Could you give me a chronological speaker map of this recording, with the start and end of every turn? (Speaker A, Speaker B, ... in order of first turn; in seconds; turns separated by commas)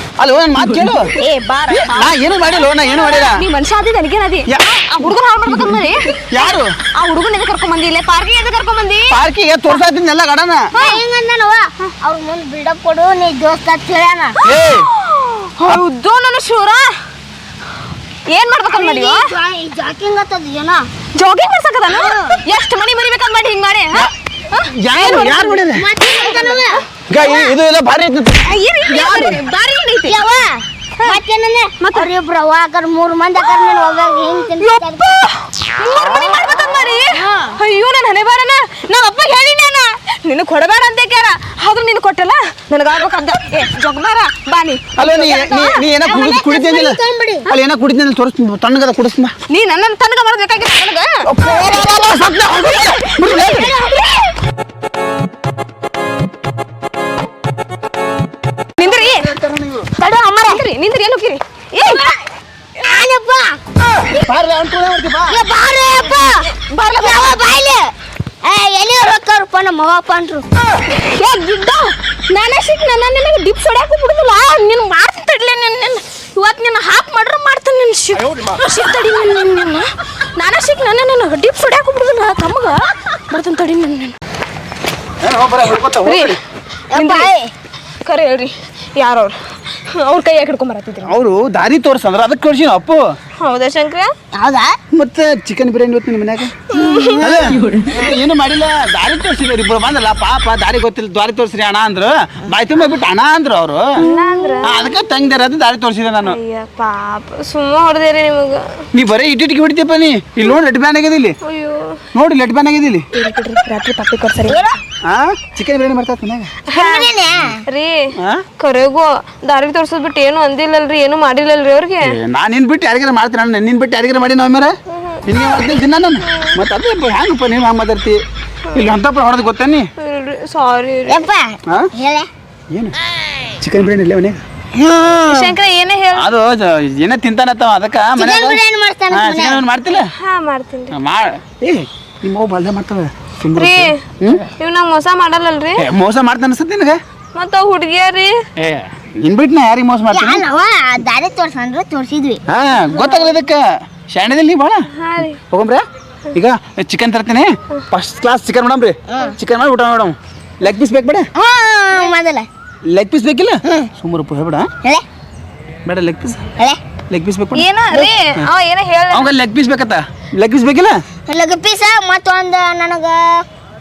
Speaker A: 0.2-1.1, Speaker B: 1.2-1.6, Speaker C: 1.5-9.8, Speaker A: 1.7-3.4, Speaker A: 6.3-6.7, Speaker A: 9.1-10.7, Speaker C: 10.7-11.0, Speaker B: 10.8-14.4, Speaker A: 14.4-14.9, Speaker C: 14.5-16.9, Speaker C: 18.3-19.3, Speaker B: 18.7-20.9, Speaker C: 21.1-27.5, Speaker B: 21.9-22.4, Speaker A: 24.7-25.9, Speaker B: 25.7-26.8, Speaker A: 27.1-29.4, Speaker C: 28.4-30.4, Speaker B: 30.0-35.1, Speaker C: 31.8-32.1, Speaker C: 33.4-34.0, Speaker C: 34.6-45.7, Speaker B: 37.2-37.5, Speaker A: 45.0-49.3, Speaker B: 45.4-47.5, Speaker C: 49.5-51.1, Speaker A: 51.2-53.7, Speaker B: 51.4-52.3, Speaker C: 52.7-53.4, Speaker B: 53.2-54.3, Speaker C: 58.8-59.3, Speaker A: 58.8-59.9, Speaker B: 60.0-60.6, Speaker C: 60.4-62.1, Speaker B: 61.8-62.1, Speaker B: 62.8-63.6, Speaker A: 64.1-65.4, Speaker B: 65.3-67.9, Speaker C: 66.0-67.5, Speaker B: 68.4-70.4, Speaker C: 71.0-84.1, Speaker A: 85.2-86.4, Speaker C: 86.0-86.4, Speaker B: 86.9-87.5, Speaker C: 86.9-87.3, Speaker C: 88.0-91.1, Speaker A: 91.0-93.0, Speaker C: 93.4-94.1, Speaker B: 94.3-94.8, Speaker A: 94.9-96.5, Speaker C: 96.7-97.2, Speaker B: 96.7-98.1, Speaker A: 97.2-103.8, Speaker C: 104.0-104.9, Speaker B: 104.0-104.7, Speaker A: 104.6-106.4, Speaker C: 106.2-108.6, Speaker A: 108.9-111.4, Speaker C: 111.4-112.0, Speaker A: 112.1-113.1, Speaker C: 113.1-114.8, Speaker B: 114.4-114.8, Speaker A: 115.0-116.5, Speaker C: 116.7-117.2, Speaker B: 116.7-117.6, Speaker C: 117.7-118.0, Speaker A: 118.2-118.4, Speaker C: 118.6-122.2, Speaker A: 122.0-124.7, Speaker C: 124.9-125.6, Speaker A: 125.2-128.2, Speaker A: 128.7-129.9, Speaker C: 130.0-131.3, Speaker B: 131.1-132.3, Speaker A: 133.6-134.4, Speaker B: 134.8-135.5, Speaker C: 135.3-136.3, Speaker A: 136.1-140.1, Speaker B: 138.2-139.6, Speaker C: 139.9-140.9, Speaker A: 140.9-144.4, Speaker C: 143.6-144.0, Speaker C: 144.6-145.8, Speaker A: 145.8-147.0, Speaker C: 147.3-148.3, Speaker A: 148.6-150.4, Speaker B: 150.1-152.4, Speaker A: 152.5-161.3, Speaker C: 152.9-153.3, Speaker C: 155.0-155.4, Speaker B: 161.4-162.4, Speaker A: 162.9-164.7, Speaker A: 165.8-166.5, Speaker A: 167.1-167.7, Speaker C: 167.5-169.3, Speaker A: 169.1-171.0, Speaker B: 171.3-173.4